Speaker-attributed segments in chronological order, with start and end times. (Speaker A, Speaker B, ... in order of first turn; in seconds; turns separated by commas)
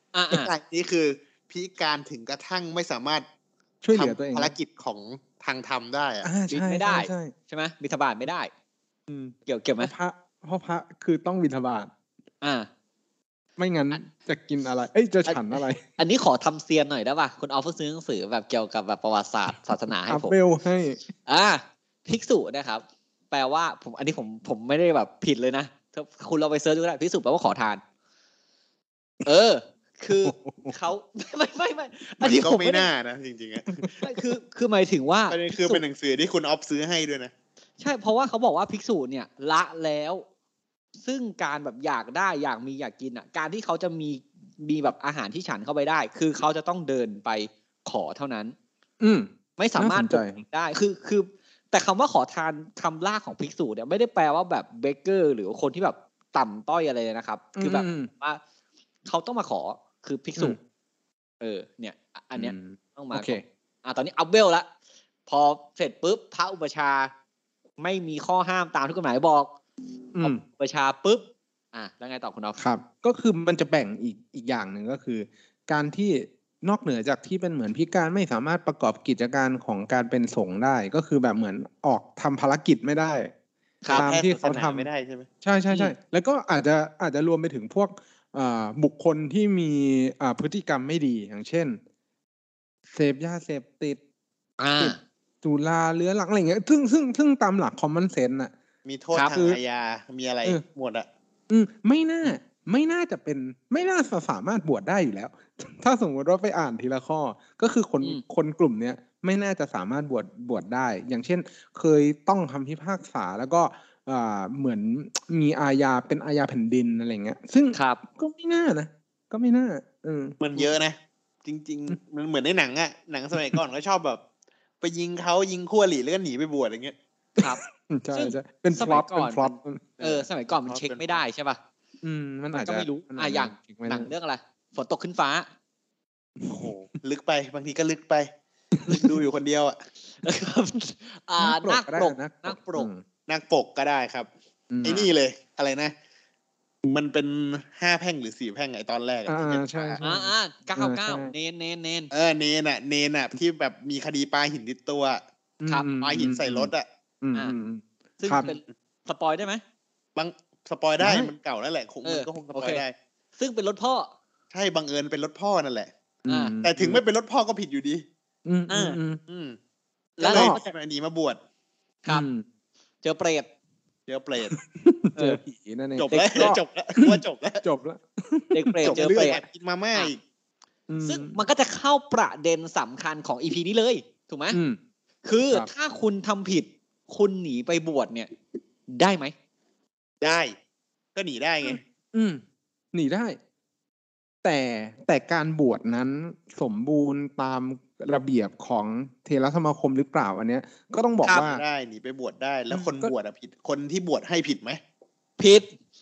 Speaker A: 0.1-0.5, Speaker B: 0.3-3.2, Speaker C: 3.8-4.5, Speaker B: 3.9-6.3, Speaker C: 6.2-7.3, Speaker A: 6.5-8.5, Speaker C: 9.1-11.9, Speaker A: 9.4-9.9, Speaker A: 12.4-12.7, Speaker C: 13.6-15.8, Speaker A: 15.2-20.3, Speaker C: 20.1-21.0, Speaker A: 21.2-27.8, Speaker A: 29.2-32.9, Speaker C: 30.2-30.7, Speaker B: 32.2-33.9, Speaker A: 34.0-35.8, Speaker B: 35.3-37.3, Speaker A: 37.8-40.2, Speaker A: 41.0-48.5, Speaker C: 49.0-50.3, Speaker A: 49.6-58.4, Speaker C: 57.5-58.1, Speaker A: 59.0-60.6, Speaker A: 61.4-64.7, Speaker C: 62.4-63.4, Speaker A: 65.3-67.1, Speaker A: 67.8-69.5, Speaker C: 70.1-70.4, Speaker A: 70.2-72.6, Speaker C: 72.6-83.3, Speaker A: 83.8-84.1, Speaker B: 83.9-85.3, Speaker C: 83.9-84.9, Speaker C: 85.4-91.8, Speaker C: 92.9-94.0, Speaker A: 94.6-95.0, Speaker C: 94.8-98.5, Speaker B: 98.8-101.1, Speaker A: 99.1-99.4, Speaker C: 101.5-120.7, Speaker A: 117.7-118.0, Speaker B: 120.4-124.2, Speaker B: 124.8-126.9, Speaker C: 127.4-130.0, Speaker A: 128.1-131.6, Speaker B: 130.0-131.2, Speaker C: 132.0-134.1, Speaker A: 132.5-135.5, Speaker C: 136.4-136.7, Speaker B: 136.5-138.3, Speaker C: 138.8-139.1, Speaker B: 138.9-139.8, Speaker A: 140.2-142.9, Speaker C: 141.4-143.0, Speaker B: 143.3-144.3, Speaker C: 144.7-145.1, Speaker B: 144.8-145.9, Speaker B: 146.8-150.0, Speaker C: 149.3-151.3, Speaker A: 150.0-152.1, Speaker B: 152.1-155.2, Speaker C: 155.6-158.4, Speaker B: 156.0-156.8, Speaker A: 158.2-159.6, Speaker B: 160.2-162.9, Speaker C: 161.0-161.3, Speaker A: 162.0-162.8, Speaker A: 163.4-164.1, Speaker B: 164.5-165.9, Speaker C: 166.2-167.0, Speaker A: 166.3-166.6, Speaker B: 166.6-168.0, Speaker C: 168.4-169.2, Speaker A: 168.7-169.0, Speaker B: 169.3-169.6, Speaker A: 170.2-170.7, Speaker B: 170.2-171.4, Speaker C: 170.3-170.6, Speaker C: 172.1-172.4, Speaker A: 173.0-173.5, Speaker B: 174.1-174.6, Speaker C: 174.5-179.4, Speaker A: 175.1-175.4, Speaker B: 175.9-177.6, Speaker A: 176.1-176.5, Speaker A: 178.5-179.4, Speaker B: 178.8-180.2, Speaker C: 180.9-181.4, Speaker A: 181.0-184.6, Speaker C: 184.5-184.8, Speaker A: 185.2-188.3, Speaker A: 188.9-189.3, Speaker B: 190.2-190.5, Speaker B: 191.1-191.8, Speaker C: 191.6-192.4, Speaker C: 192.9-193.4, Speaker C: 194.4-201.6, Speaker B: 201.3-204.8, Speaker C: 202.7-203.1, Speaker A: 205.4-205.7